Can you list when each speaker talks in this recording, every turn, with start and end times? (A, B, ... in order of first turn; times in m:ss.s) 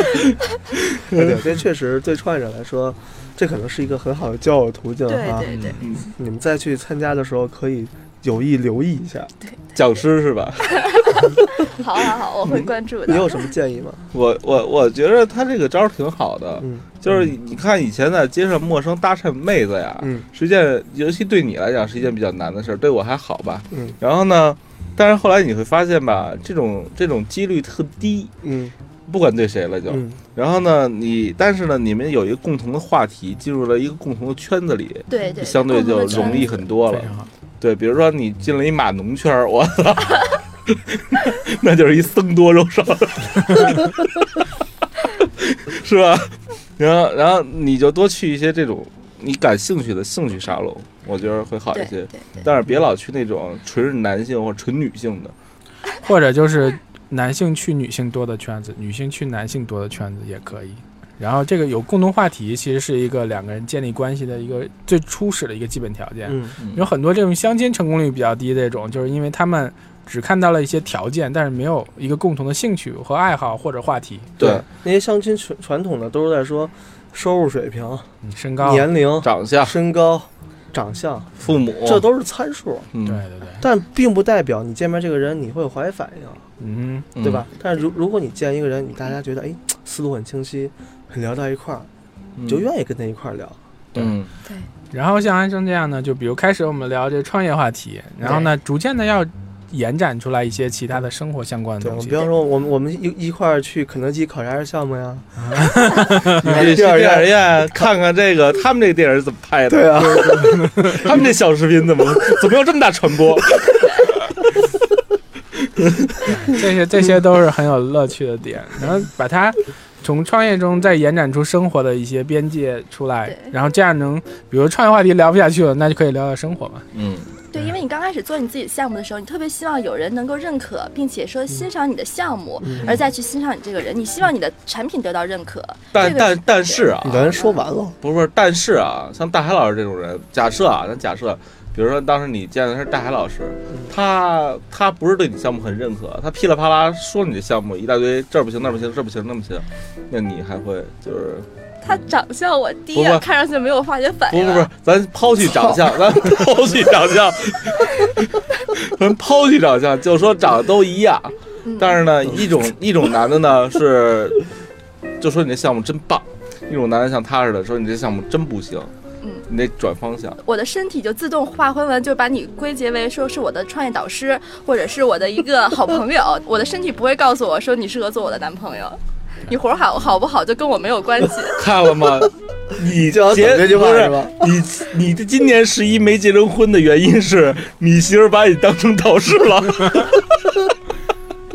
0:00.8-0:01.4 A
0:01.1-0:09.3 B
0:05.1-0:06.0 C
0:05.5-0:05.9 D
0:05.8-0:06.0 A
0:09.7-0:11.3 A
0:10.7-0:13.5 C
0:13.1-0:14.0 B
0:14.1-0:28.3 A
0:16.6-0:16.9 B
0:20.0-0:20.2 B
0:23.7-0:24.0 B
0:28.4-0:28.7 B
0:29.1-0:44.3 A
0:29.9-0:30.2 B
0:35.1-0:36.6 C
0:36.9-0:37.3 D
0:45.2-0:55.3 A
0:51.7-0:52.3 C
0:56.0-1:14.3 D
1:06.3-1:06.5 B
1:06.6-1:06.9 A
1:14.4-1:14.6 A
1:14.4-1:18.1 B
1:18.2-1:18.9 D
1:18.6-1:22.9 B
1:19.2-1:19.7 A
1:21.4-1:22.0 A
1:22.9-1:23.2 A
1:23.0-1:23.7 D
1:23.6-1:26.4 B
1:26.6-1:27.1 D
1:27.1-1:27.5 A
1:27.2-1:31.9 B
1:32.4-1:32.6 A
1:32.4-1:33.6 B
1:34.0-1:34.3 A
1:34.9-1:42.2 D
1:38.2-1:38.5 B
1:41.8-1:47.9 B
1:45.4-1:46.4 D
1:46.3-1:54.2 A
1:49.7-1:50.6 B
1:50.2-1:51.0 D
1:55.8-1:56.3 A
1:56.2-2:06.9 D
2:03.3-2:03.5 C
2:06.9-2:07.3 A
2:07.5-2:17.6 C
2:12.6-2:12.9 B
2:12.8-2:13.1 A
2:15.9-2:17.4 A
2:17.0-2:18.0 B
2:18.0-2:31.5 A
2:31.8-2:34.7 C
2:32.9-2:33.2 A
2:34.3-2:44.4 A
2:41.6-2:42.0 C
2:45.2-2:48.9 A
2:49.2-2:49.5 C
2:49.5-2:50.4 A
2:50.4-3:01.6 C
3:01.6-3:10.5 A
3:02.9-3:04.5 B